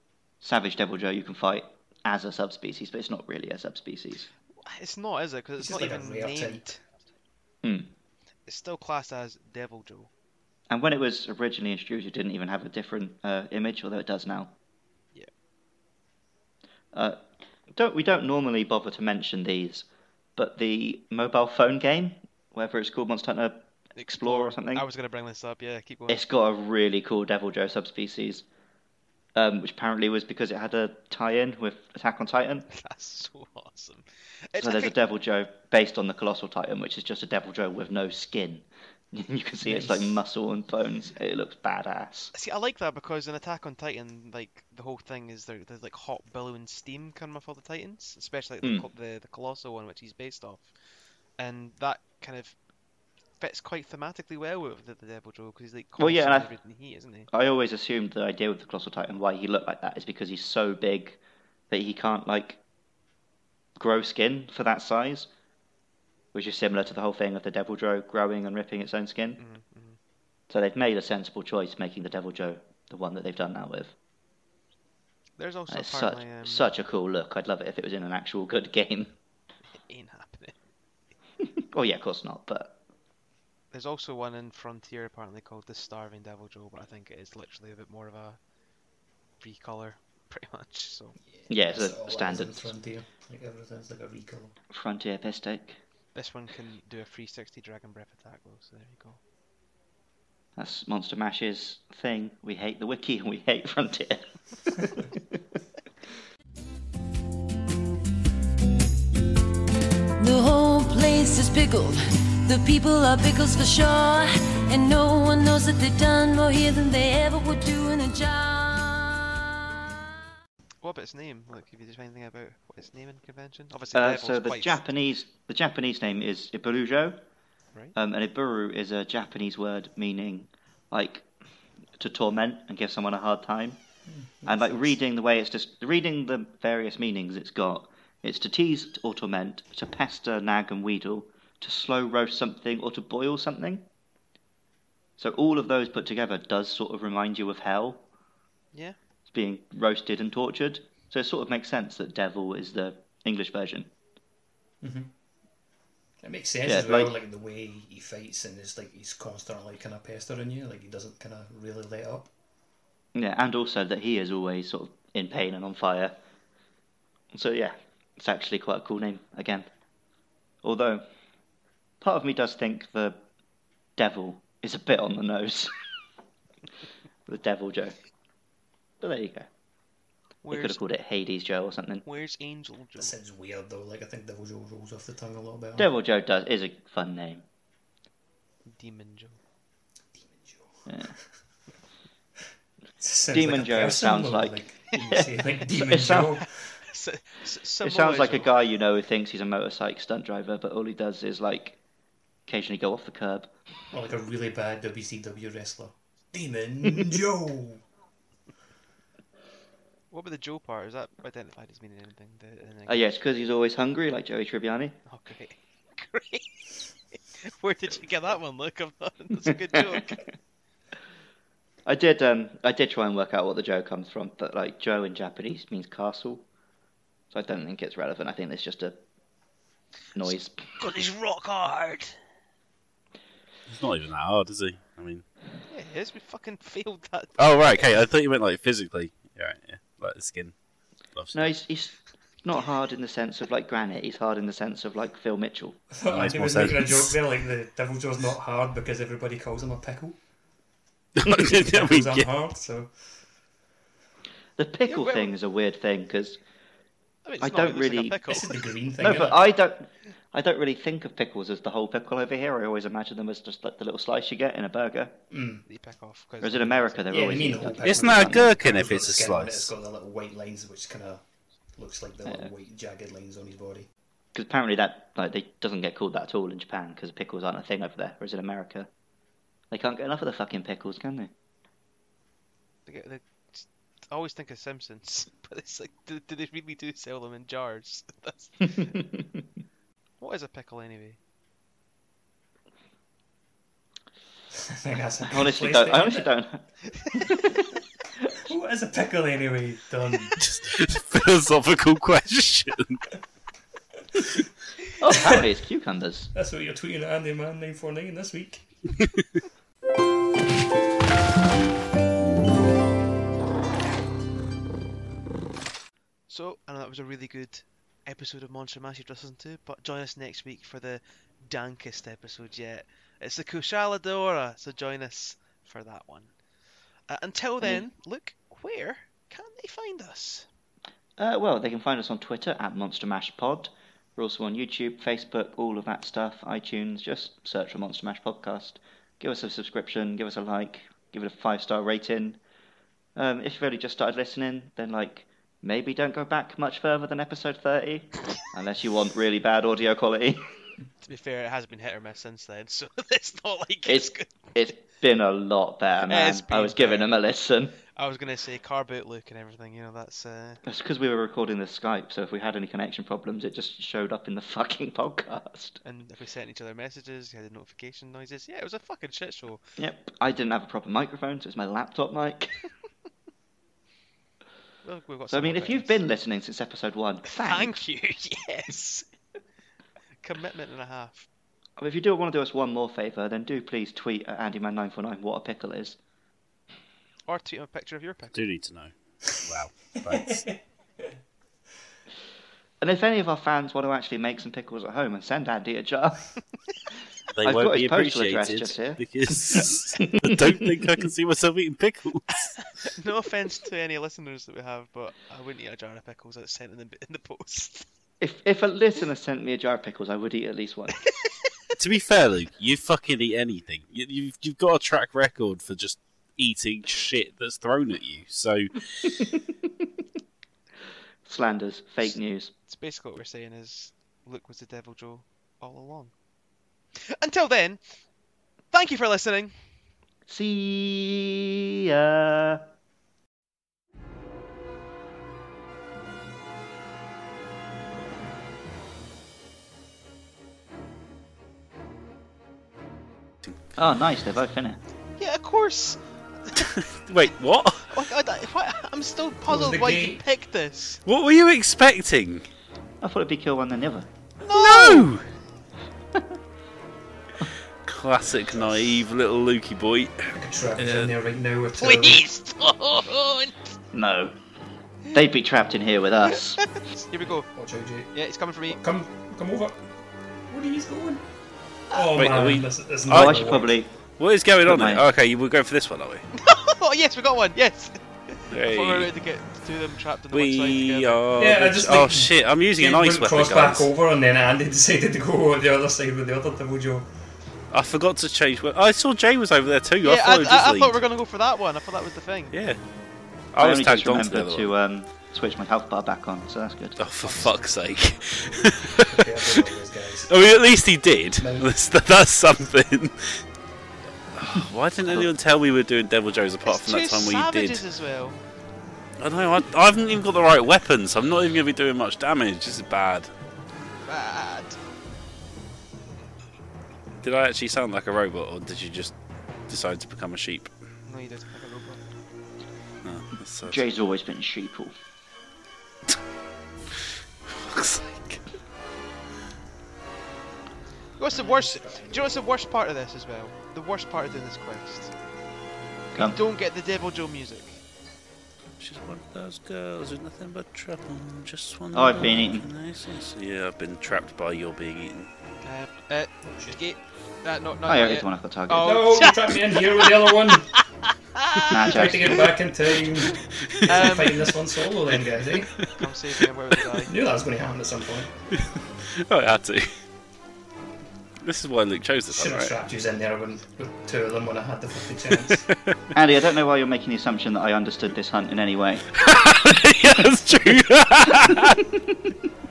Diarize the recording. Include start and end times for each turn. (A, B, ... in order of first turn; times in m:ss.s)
0:00.4-0:04.3 A
0:04.6-0:06.8 B
0:05.6-0:06.6 C
0:07.6-0:07.9 A
0:08.5-0:10.1 B
0:10.7-0:14.5 A
0:16.9-0:17.2 A
0:17.7-0:24.8 A
0:24.0-0:26.2 B
0:26.1-0:28.4 A
0:29.3-0:32.7 A
0:32.7-0:34.9 B
0:34.6-0:42.3 A
0:39.6-0:40.2 C
0:42.3-0:50.7 B
0:51.4-0:52.6 B
0:53.4-0:57.3 B
0:56.0-0:56.5 A
0:57.3-1:02.6 A
1:03.8-1:05.3 A
1:06.3-1:09.4 A
1:09.4-1:10.0 B
1:10.5-1:13.9 A
1:15.4-1:16.7 B
1:15.7-1:19.1 A
1:19.7-1:20.6 B
1:21.6-1:22.8 A
1:23.7-1:28.4 B
1:29.4-1:31.2 B
1:31.3-1:34.6 C
1:31.5-1:32.7 A
1:34.7-1:35.8 A
1:36.1-1:39.2 B
1:40.6-1:45.2 A
1:50.2-1:59.4 D
2:00.8-2:04.8 B
2:03.9-2:07.2 A
2:07.9-2:11.3 A
2:12.0-2:13.8 A
2:14.1-2:15.0 C
2:14.4-2:23.8 A
2:25.2-2:28.0 A
2:29.3-2:33.9 A
2:34.8-2:35.1 C
2:36.2-2:42.3 C
2:36.6-2:37.1 A
2:43.1-2:46.1 A
2:47.3-2:49.7 A
2:50.6-2:51.0 A
2:52.0-2:53.2 A
2:54.0-2:55.8 A
2:57.3-2:58.0 A
2:59.0-2:59.5 A
3:00.4-3:00.8 B
3:00.5-3:02.0 A
3:02.0-3:03.1 B
3:03.0-3:05.9 C
3:05.8-3:07.4 A
3:08.6-3:09.4 B
3:10.1-3:11.2 C
3:10.9-3:11.1 A
3:13.0-3:16.8 C
3:13.3-3:16.4 A
3:16.8-3:18.5 B
3:17.8-3:21.8 A
3:22.5-3:23.5 A
3:23.9-3:27.8 C
3:30.1-3:33.5 B
3:32.9-3:35.0 A
3:35.0-3:36.7 B
3:37.3-3:40.2 B
3:41.8-3:46.4 A
3:47.3-3:49.0 A
3:50.2-3:50.6 A
3:50.2-3:52.1 B
3:53.7-3:55.2 E
3:55.7-3:57.9 B
3:57.4-4:00.5 E
4:01.1-4:01.5 E
4:01.3-4:05.8 A
4:05.9-4:10.2 C
4:06.1-4:07.2 E
4:11.2-4:12.3 E
4:11.2-4:12.9 C
4:14.6-4:16.4 A
4:14.8-4:15.3 B
4:17.2-4:18.6 B
4:17.4-4:18.3 A
4:18.3-4:19.4 C
4:19.0-4:25.2 A
4:25.3-4:25.6 C
4:25.7-4:27.1 B
4:26.4-4:28.6 A
4:27.1-4:31.2 C
4:27.8-4:29.7 E
4:31.8-4:33.9 C
4:34.3-4:38.9 A
4:39.7-4:41.3 A
4:42.8-4:48.9 B
4:48.6-4:49.4 A
4:50.2-4:51.2 B
4:54.5-4:56.3 C
4:55.2-4:57.5 A
4:58.4-5:00.4 C
5:00.4-5:03.0 E
5:05.0-5:06.3 A
5:05.1-5:05.4 C
5:06.3-5:08.6 C
5:16.3-5:26.3 B
5:27.1-5:30.5 B
5:31.2-5:42.4 A
5:43.2-5:50.5 A
5:51.0-5:54.6 B
5:53.8-5:57.8 A
5:56.0-5:57.2 B
5:57.9-6:00.6 B
6:00.6-6:05.8 A
6:05.8-6:09.6 B
6:09.8-6:12.6 A
6:14.8-6:16.0 B
6:15.3-6:17.8 A
6:17.2-6:19.1 B
6:20.2-6:21.3 B
6:21.8-6:26.0 A
6:27.3-6:28.4 B
6:28.3-6:30.5 E
6:30.1-6:30.6 C
6:32.8-6:36.4 A
6:37.3-6:42.5 E
6:37.4-6:41.0 A
6:42.8-6:47.9 B
6:48.2-6:51.0 A
6:51.2-6:51.4 B
6:51.8-6:59.2 E
7:01.2-7:02.5 A
7:02.7-7:06.1 B
7:07.0-7:07.8 B
7:08.7-7:09.5 B
7:10.3-7:12.6 A
7:23.8-7:24.8 A
7:25.2-7:26.7 B
7:26.6-7:27.9 E
7:27.9-7:31.0 B
7:29.5-7:30.2 C
7:31.0-7:32.4 E
7:33.0-7:34.1 A
7:34.4-7:35.1 B
7:34.5-7:35.2 E
7:37.8-7:41.1 E
7:40.3-7:42.2 C
7:41.8-7:43.6 B
7:43.9-7:44.4 A
7:45.1-7:46.6 A
7:46.6-7:47.5 B
7:47.4-7:48.1 C
7:48.1-7:48.8 B
7:48.7-7:49.8 C
7:50.5-7:51.2 C
7:51.9-7:53.7 C
7:52.1-7:53.6 E
7:53.1-7:53.9 A
7:54.2-7:56.2 E
7:54.6-7:55.0 A
7:56.3-8:01.2 B
7:58.5-7:59.1 E
8:00.3-8:03.9 E
8:01.4-8:07.1 C
8:07.7-8:11.0 E
8:10.0-8:12.5 B
8:12.5-8:12.8 E
8:13.5-8:14.7 E
8:13.6-8:17.0 A
8:17.0-8:19.6 E
8:19.0-8:20.3 C
8:20.3-8:23.4 E
8:21.4-8:21.7 C
8:24.3-8:27.8 E
8:26.6-8:28.4 B
8:29.2-8:33.3 E
8:34.0-8:34.8 B
8:37.2-8:39.2 E
8:39.7-8:40.7 E
8:41.0-8:42.0 B
8:43.0-8:43.8 E
8:43.6-8:44.9 A
8:47.5-8:48.4 E
8:51.2-8:55.1 B
8:51.3-8:52.3 C
8:56.2-8:57.8 B
8:58.8-9:05.3 E
9:01.9-9:02.7 A
9:05.6-9:11.8 B
9:07.8-9:09.0 A
9:08.8-9:10.7 C
9:11.7-9:12.5 A
9:11.8-9:15.8 C
9:13.8-9:14.5 B
9:15.8-9:17.1 B
9:17.0-9:18.3 C
9:18.5-9:19.9 E
9:21.4-9:22.7 E
9:22.3-9:25.7 C
9:25.4-9:26.0 E
9:26.1-9:29.0 A
9:29.1-9:31.8 E
9:31.5-9:32.1 A